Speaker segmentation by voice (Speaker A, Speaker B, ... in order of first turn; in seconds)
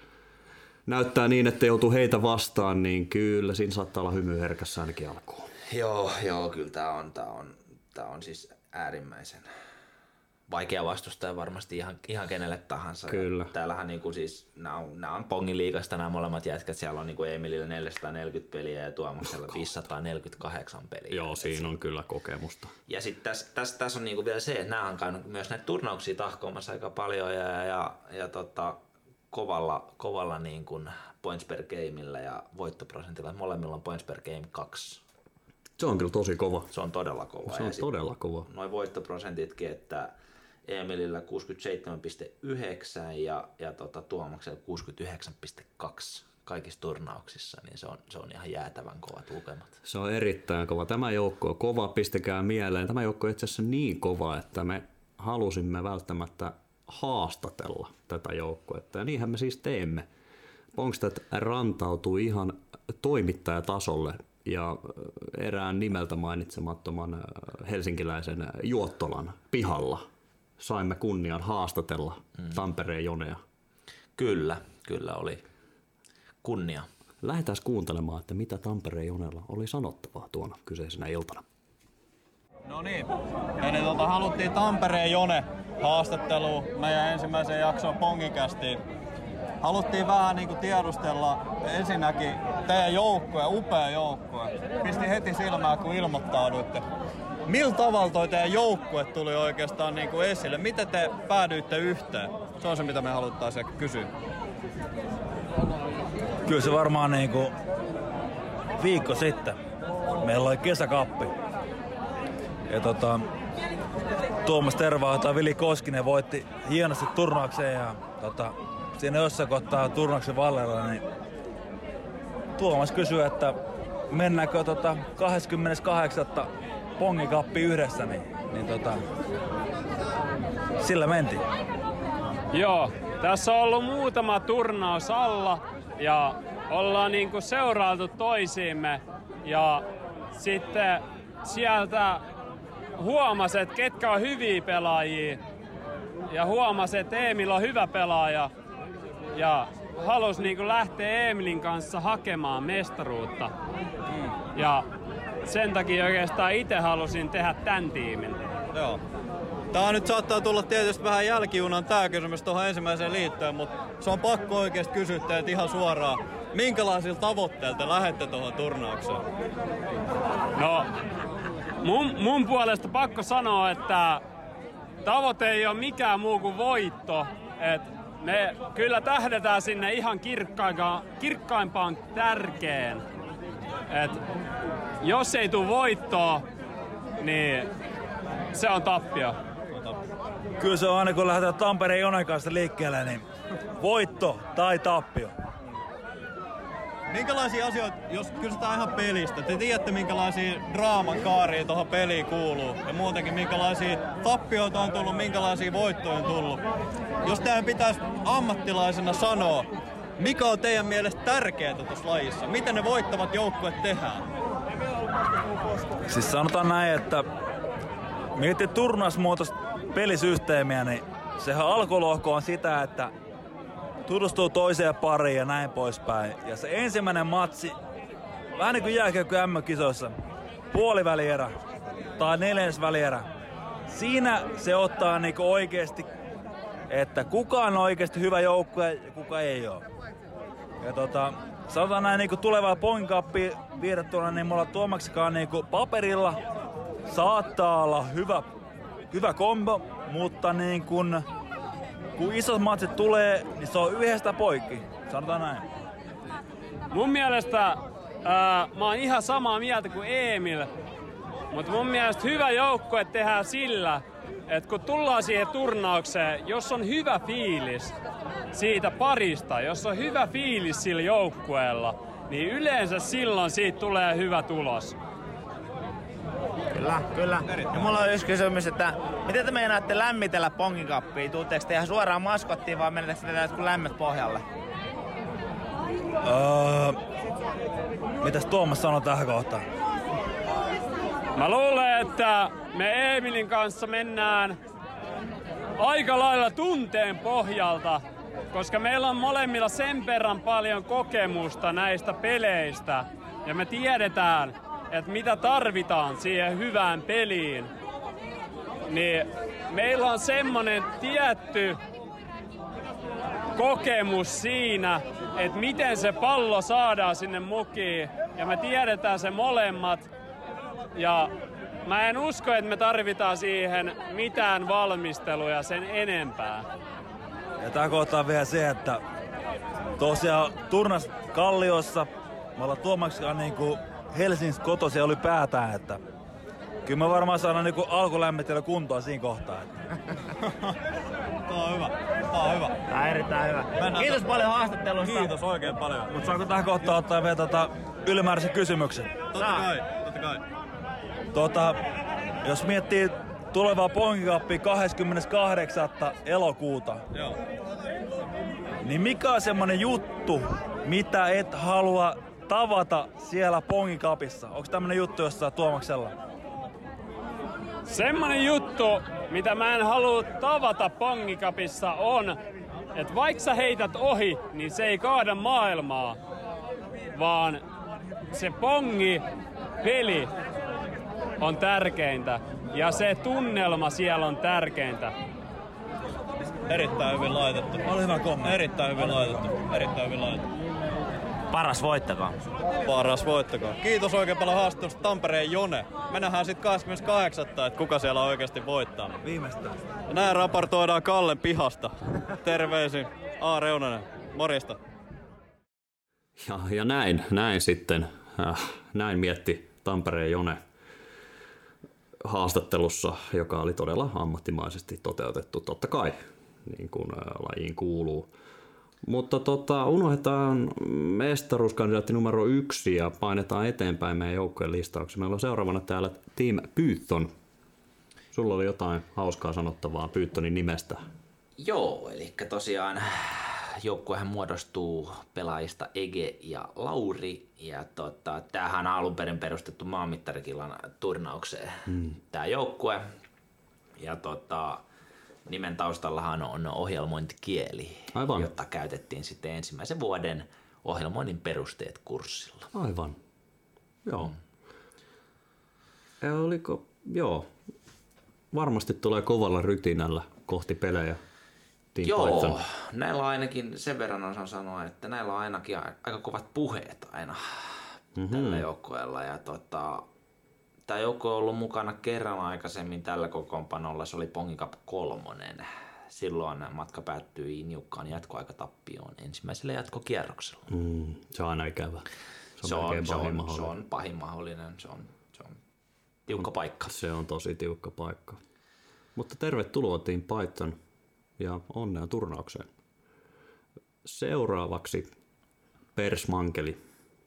Speaker A: 0.9-5.5, 13.1-13.5, 21.1-22.7, 35.8-36.7, 37.5-38.5, 49.8-60.1, 60.7-70.1, 70.6-73.4, 77.2-81.5, 406.4-410.6, 412.2-418.3, 419.0-427.3, 428.3-431.0, 441.9-442.2, 448.1-448.5, 452.7-453.2, 454.1-454.4, 456.2-457.5, 458.5-461.2, 461.9-462.6, 468.1-468.6, 480.7-483.7, 486.4-488.4, 489.1-490.8, 491.4-492.7, 494.1-495.1, 496.0-496.8
Speaker B: 5.7-9.5, 10.5-21.7, 22.9-28.8, 29.3-35.0, 36.7-37.9, 38.5-40.1, 40.7-49.8, 74.2-75.4, 76.4-76.9, 431.6-443.1, 444.0-444.8, 445.5-452.7, 462.0-470.1, 470.9-480.7, 482.6-485.6, 486.3-486.9
Speaker C: 82.7-88.8, 89.6-96.8, 97.5-104.1, 154.1-154.3, 158.7-159.0, 159.7-169.2, 189.7-190.0, 197.1-206.6, 207.2-214.2, 341.5-342.8, 343.8-344.3, 345.0-346.1, 349.3-350.4, 386.7-387.9, 388.4-390.5, 392.8-399.2, 400.1-404.8
Speaker D: 106.5-107.5, 108.8-109.6, 110.2-111.3, 112.7-113.2, 114.5-121.0, 122.6-123.6, 124.1-129.0, 130.8-131.4, 190.6-193.2, 193.8-195.3, 216.1-217.2, 218.4-223.1, 224.1-227.8, 228.6-230.2, 230.7-231.6, 232.2-233.3, 233.9-236.1, 236.9-239.8, 240.8-246.4, 247.1-248.5, 249.1-251.2, 252.2-255.7, 286.2-287.0, 288.2-289.6, 327.6-329.0, 330.0-336.0, 336.9-339.8, 346.1-349.1, 351.3-351.8, 352.4-357.0, 358.8-366.1, 387.9-389.3, 399.2-399.8
Speaker E: 132.5-142.2, 143.0-145.4, 146.3-148.5, 149.3-153.5, 154.6-154.9, 155.4-158.4, 170.6-170.9, 171.8-174.2, 175.0-183.0, 183.9-184.2, 185.0-186.4, 187.2-187.7, 188.5-189.4, 256.9-260.7, 261.5-267.9, 268.5-275.0, 291.4-294.6, 295.8-307.7, 308.9-311.8, 313.6-320.1, 321.0-321.3, 321.9-326.7, 367.9-372.4, 372.9-376.2, 377.1-377.6, 378.3-379.2, 379.8-380.3, 381.4-385.1
Speaker F: 276.7-284.4, 342.9-345.3, 349.4-349.7, 391.5-392.4